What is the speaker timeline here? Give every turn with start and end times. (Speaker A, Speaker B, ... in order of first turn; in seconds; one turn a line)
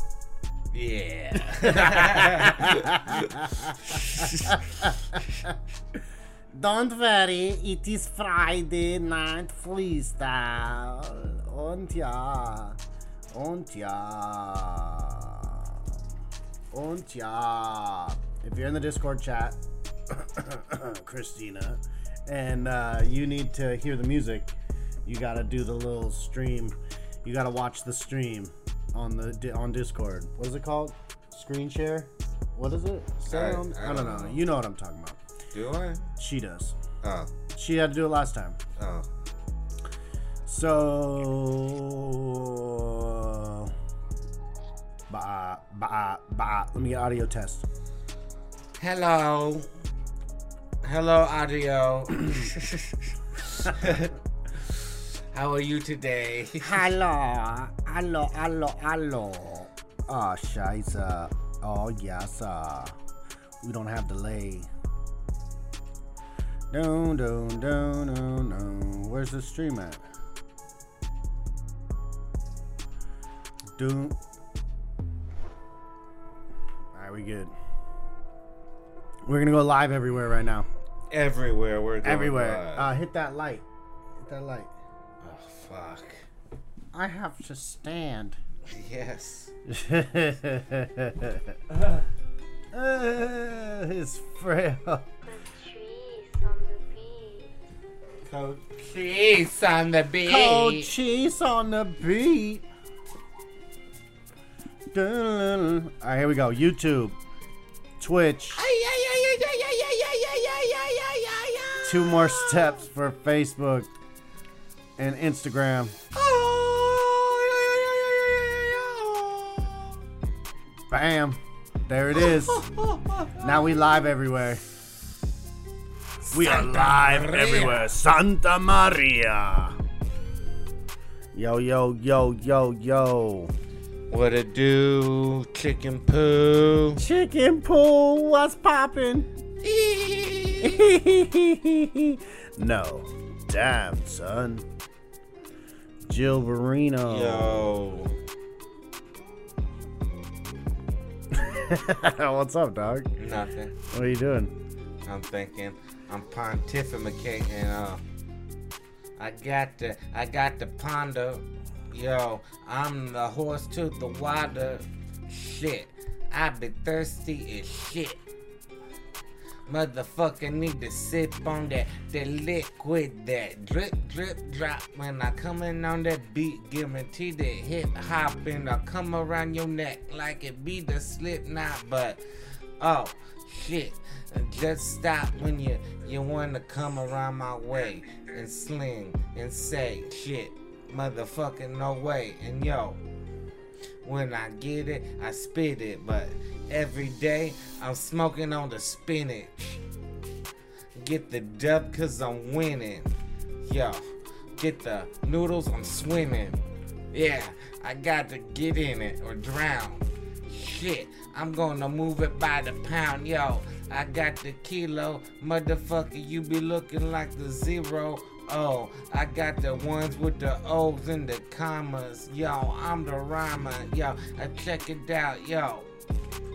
Speaker A: 0.7-4.6
Speaker B: 1.3-5.5
Speaker B: 6.5-12.8
Speaker B: 13.3-15.8
Speaker B: 16.7-19.6
Speaker B: 20.1-24.5
Speaker B: 25.1-35.2
Speaker A: 33.2-34.4
Speaker A: 35.5-36.1
Speaker B: 36.2-36.8
Speaker A: 37.0-37.3
Speaker B: 37.5-38.6
Speaker A: 38.8-39.1
Speaker B: 40.5-43.7
Speaker B: 45.1-47.7
Speaker A: 48.8-49.6
Speaker A: 50.8-56.8
Speaker B: 56.6-63.0
Speaker B: 63.6-64.7
Speaker B: 66.7-70.0
Speaker B: 73.8-74.2
Speaker B: 76.9-77.5
Speaker B: 79.2-80.7
Speaker A: 81.1-82.9
Speaker B: 82.0-83.6
Speaker B: 84.2-84.7
Speaker A: 85.2-86.2
Speaker B: 86.9-88.4
Speaker A: 88.7-89.5
Speaker B: 89.7-91.5
Speaker A: 91.7-92.0
Speaker B: 92.7-95.0
Speaker C: 95.3-97.5
Speaker A: 98.2-100.9
Speaker B: 100.2-102.7
Speaker B: 104.9-107.2
Speaker B: 108.0-108.6
Speaker A: 108.6-112.8
Speaker B: 111.8-113.9
Speaker B: 115.0-115.9
Speaker A: 116.1-119.8
Speaker B: 120.9-122.7
Speaker A: 122.1-123.6
Speaker B: 123.4-124.6
Speaker A: 126.2-127.8
Speaker B: 126.3-129.8
Speaker B: 131.3-133.5
Speaker A: 134.1-137.0
Speaker B: 137.0-139.3
Speaker A: 139.6-140.8
Speaker B: 140.6-144.7
Speaker B: 146.1-147.7
Speaker A: 147.1-148.2
Speaker B: 151.3-153.1
Speaker A: 153.2-153.7
Speaker B: 153.9-154.5
Speaker A: 155.1-158.0
Speaker A: 159.2-168.2
Speaker A: 169.7-182.2
Speaker A: 182.8-193.0
Speaker A: 194.0-199.8
Speaker A: 201.0-204.0
Speaker A: 204.6-206.6
Speaker A: 207.1-225.9